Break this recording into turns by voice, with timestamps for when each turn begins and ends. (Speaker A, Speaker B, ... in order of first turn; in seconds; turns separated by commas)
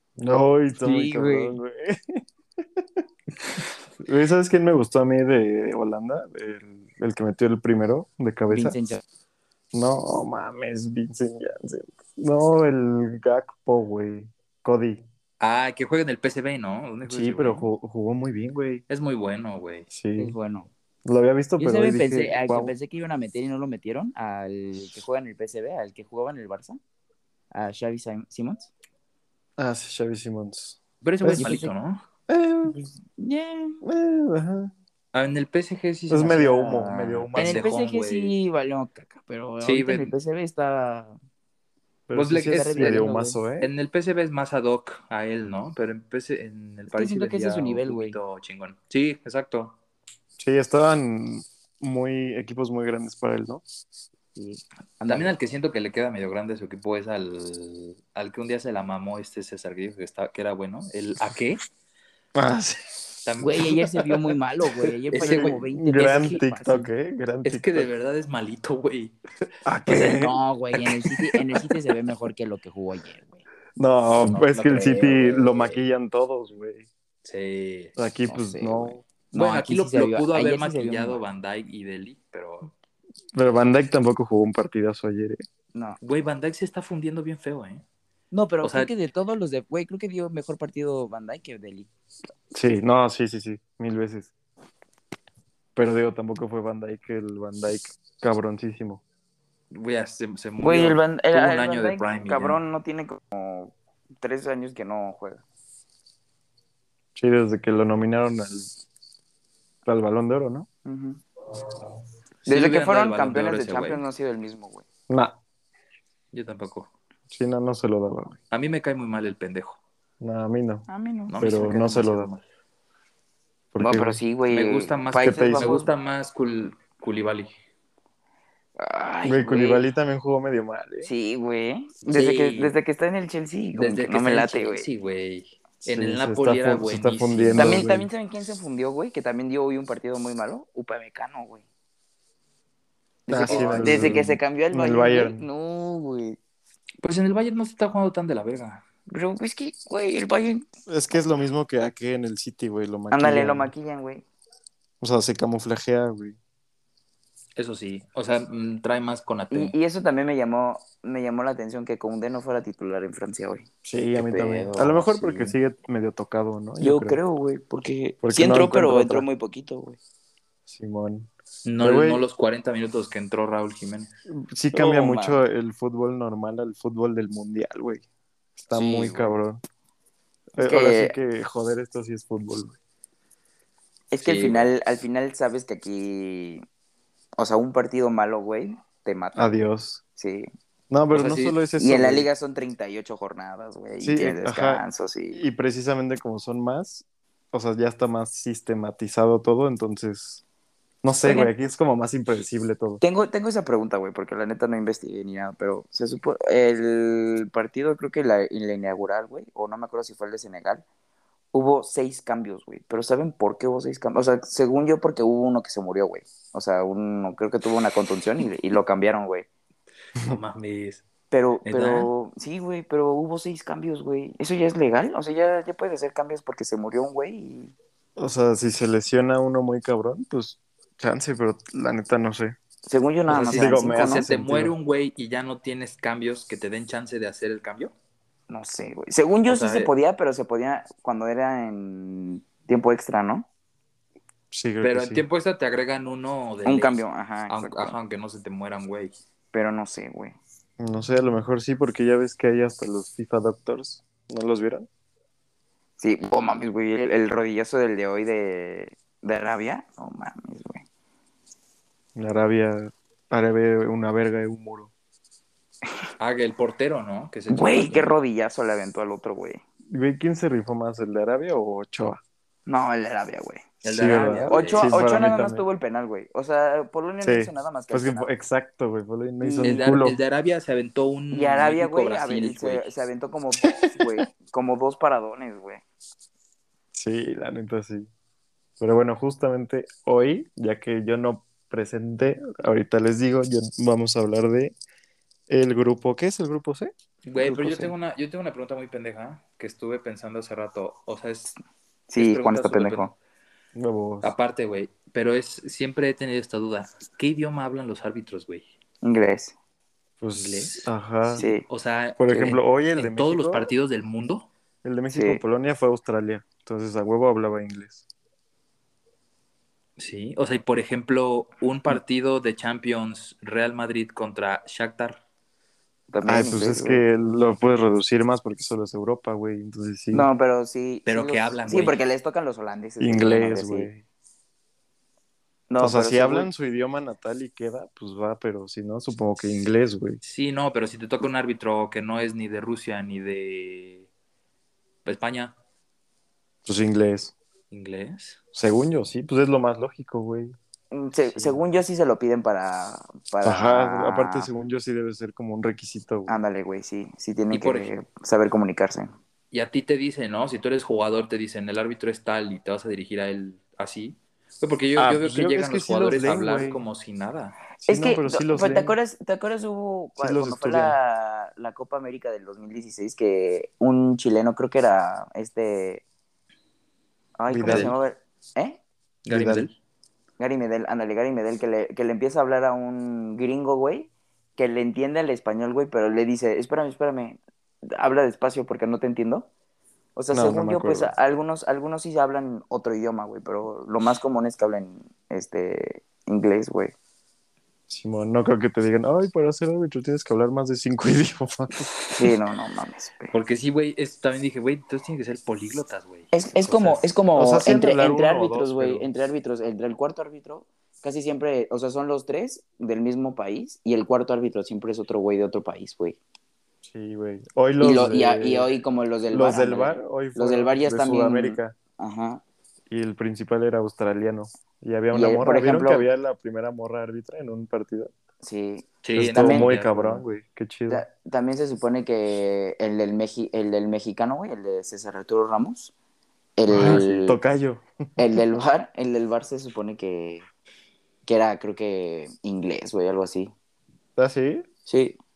Speaker A: 0.2-2.2, Speaker B: 0.8-1.6, Speaker A: 2.8-3.0, Speaker A: 4.0-8.8, Speaker B: 8.5-9.0, Speaker A: 9.7-15.1, Speaker C: 15.4-17.7, Speaker A: 17.1-18.8, Speaker C: 18.9-19.9, Speaker A: 19.9-20.4, Speaker B: 20.2-20.7, Speaker A: 21.1-22.7, Speaker B: 21.6-26.8, Speaker B: 27.5-28.7, Speaker A: 29.6-31.6, Speaker C: 31.0-32.0, Speaker B: 31.4-31.7, Speaker A: 32.3-32.8, Speaker B: 33.2-33.8, Speaker A: 33.8-34.7, Speaker C: 35.1-38.3, Speaker A: 36.1-37.7, Speaker B: 37.4-41.2, Speaker C: 39.6-40.1, Speaker A: 42.1-43.7, Speaker C: 42.1-42.9, Speaker B: 42.4-43.4, Speaker C: 43.6-49.8, Speaker B: 46.9-48.2, Speaker A: 50.4-53.6, Speaker B: 54.4-55.3, Speaker C: 55.1-61.6, Speaker A: 62.4-63.2, Speaker C: 63.2-63.9, Speaker B: 63.4-66.9, Speaker A: 64.8-67.9, Speaker C: 65.1-66.5, Speaker C: 67.4-69.2, Speaker A: 69.6-70.4, Speaker B: 69.9-73.5, Speaker A: 73.8-76.9, Speaker B: 74.2-75.8, Speaker C: 77.2-77.9, Speaker A: 78.0-79.0, Speaker B: 78.3-81.2, Speaker C: 79.3-82.7, Speaker A: 83.3-85.4, Speaker B: 85.7-86.0, Speaker C: 86.0-87.8, Speaker B: 88.3-91.9, Speaker C: 88.6-88.9, Speaker A: 92.5-94.3, Speaker A: 95.8-99.0, Speaker C: 99.7-102.6, Speaker B: 100.6-105.4, Speaker A: 107.2-108.7, Speaker A: 109.8-110.7, Speaker B: 110.8-111.2, Speaker C: 112.5-114.1, Speaker B: 112.5-114.8, Speaker A: 115.1-115.4, Speaker C: 116.3-116.9, Speaker A: 117.3-118.4, Speaker C: 118.5-119.8, Speaker A: 120.2-120.9, Speaker B: 120.9-121.4, Speaker C: 121.3-122.4, Speaker A: 121.4-122.3, Speaker A: 123.7-124.2, Speaker B: 123.8-125.9, Speaker C: 124.5-127.5, Speaker A: 125.1-125.8, Speaker B: 128.8-129.9, Speaker A: 129.3-131.1, Speaker B: 131.0-134.9, Speaker C: 132.1-132.8, Speaker C: 133.7-137.8, Speaker A: 135.8-138.1, Speaker B: 137.6-141.7, Speaker B: 143.3-146.4, Speaker A: 143.3-145.4, Speaker C: 143.4-144.2, Speaker C: 147.0-148.8, Speaker B: 149.1-150.7, Speaker A: 150.9-153.7, Speaker B: 153.1-154.2, Speaker A: 155.0-156.4, Speaker C: 157.6-159.7, Speaker B: 159.5-165.6, Speaker A: 163.8-167.2, Speaker B: 166.8-170.0, Speaker A: 168.2-169.2, Speaker A: 170.7-171.3, Speaker C: 171.7-174.1, Speaker A: 171.8-172.2, Speaker A: 174.3-178.1, Speaker B: 174.7-175.4, Speaker A: 178.6-179.6, Speaker B: 178.7-179.4, Speaker A: 180.5-182.8, Speaker B: 180.6-181.2, Speaker B: 184.1-186.7, Speaker C: 184.2-184.7, Speaker B: 187.4-189.6, Speaker A: 189.4-190.0, Speaker B: 190.2-190.5, Speaker A: 190.9-192.3, Speaker C: 191.1-191.6, Speaker B: 191.8-195.4, Speaker A: 194.0-200.4, Speaker A: 201.0-203.0, Speaker B: 201.2-201.5, Speaker B: 203.0-210.8, Speaker B: 211.5-219.5, Speaker C: 220.2-221.1, Speaker B: 221.3-227.7, Speaker C: 221.7-222.1, Speaker A: 228.2-232.6, Speaker B: 232.9-234.3, Speaker C: 233.3-237.9, Speaker A: 233.5-234.8, Speaker B: 238.5-243.5, Speaker C: 239.5-239.9, Speaker A: 244.5-245.2, Speaker C: 244.8-249.2, Speaker B: 246.7-248.0, Speaker B: 249.5-250.4, Speaker A: 250.8-254.9, Speaker B: 256.0-260.9, Speaker A: 262.2-264.9, Speaker C: 266.2-268.1, Speaker B: 267.5-269.6, Speaker A: 269.9-272.2, Speaker B: 272.7-273.7, Speaker C: 273.8-274.9, Speaker A: 273.8-275.6, Speaker B: 274.5-278.3, Speaker A: 277.2-280.2, Speaker B: 279.4-279.9, Speaker C: 279.6-282.9, Speaker B: 281.3-285.8, Speaker A: 283.7-284.2, Speaker A: 286.9-288.1, Speaker A: 288.8-294.8, Speaker A: 295.5-296.9, Speaker C: 297.2-301.6, Speaker B: 297.4-297.9, Speaker B: 302.1-303.1, Speaker C: 302.2-303.1, Speaker A: 303.8-304.3, Speaker C: 304.2-308.7, Speaker B: 309.0-309.6, Speaker A: 310.2-311.4, Speaker C: 310.4-314.5, Speaker B: 311.4-311.6, Speaker A: 312.2-313.7, Speaker A: 314.8-318.0, Speaker B: 315.1-315.4, Speaker C: 320.0-325.2, Speaker B: 326.1-327.0, Speaker A: 326.2-330.3, Speaker B: 330.1-333.9, Speaker C: 331.1-332.0, Speaker A: 333.0-334.0, Speaker B: 335.7-336.5, Speaker A: 335.8-340.2, Speaker C: 340.2-344.1, Speaker C: 345.1-345.6, Speaker A: 346.6-347.4, Speaker C: 347.7-348.4, Speaker A: 348.5-350.6, Speaker B: 350.9-354.5, Speaker A: 353.4-356.3, Speaker B: 356.3-359.1, Speaker C: 357.5-357.9, Speaker C: 359.5-367.6, Speaker A: 365.0-366.9, Speaker A: 367.8-368.9, Speaker B: 367.9-376.0, Speaker A: 370.2-371.0, Speaker B: 377.4-378.8, Speaker A: 377.5-377.9, Speaker C: 377.7-377.9, Speaker C: 379.3-379.7, Speaker A: 379.3-379.6, Speaker B: 380.4-387.4, Speaker B: 387.9-389.5, Speaker B: 390.2-396.9, Speaker A: 390.3-391.1, Speaker A: 397.9-401.9, Speaker B: 402.1-403.3, Speaker C: 403.3-407.0, Speaker B: 406.3-416.2, Speaker A: 407.4-409.1, Speaker A: 416.8-418.7, Speaker B: 417.8-422.4, Speaker A: 419.3-421.8, Speaker A: 422.9-428.1, Speaker B: 425.1-426.1, Speaker B: 428.4-429.7, Speaker C: 429.0-430.2, Speaker A: 429.1-431.1, Speaker B: 430.9-435.9, Speaker B: 436.6-437.4, Speaker A: 436.7-438.4, Speaker C: 436.8-437.0, Speaker B: 438.2-440.5, Speaker B: 441.3-443.5, Speaker A: 444.2-444.7, Speaker B: 444.9-445.2